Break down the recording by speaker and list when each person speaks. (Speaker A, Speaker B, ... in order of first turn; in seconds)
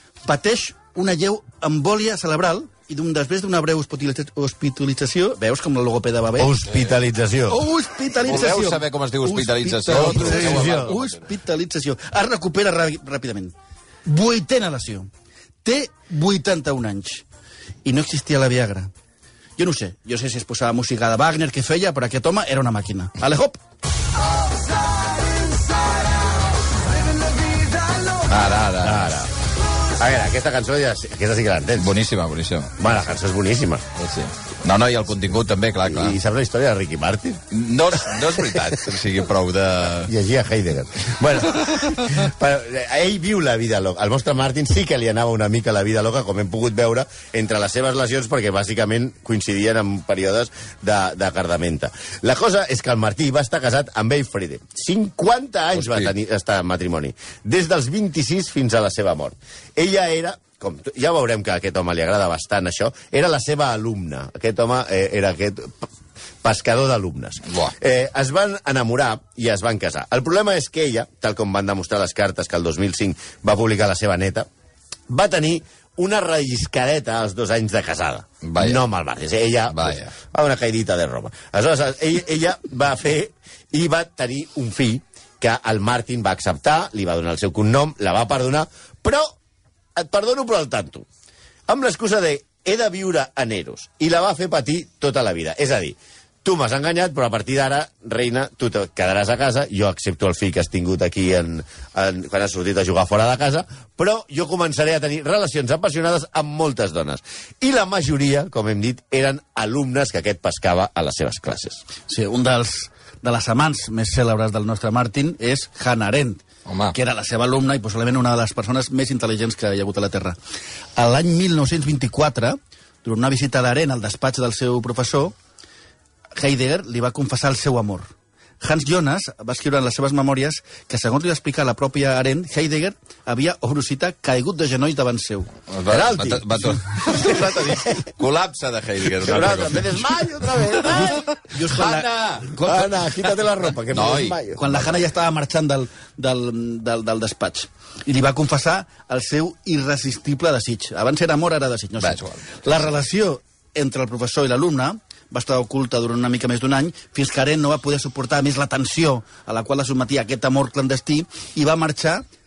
Speaker A: 0.2-6.5, 7.5-13.5, 14.1-15.1, 15.6-17.2, 17.8-18.9, 19.6-23.6, 112.1-120.4, 121.0-125.3, 126.3-135.5, 140.8-142.9, 144.5-162.2
Speaker B: 6.4-7.6, 9.9-11.0, 28.8-29.3, 30.0-32.0, 32.8-33.8, 35.9-37.4, 38.1-38.6, 40.0-65.9, 66.4-74.5, 75.1-89.3, 90.0-91.0, 91.7-111.8, 135.9-136.4, 139.2-141.2, 142.6-144.9
Speaker C: 6.6-7.0, 8.2-11.1, 28.3-29.2, 31.8-32.8, 34.0-36.2, 37.5-40.1, 55.7-56.1, 78.4-78.8, 79.7-80.1, 116.7-116.9, 135.7-143.2, 143.9-144.4, 152.0-152.4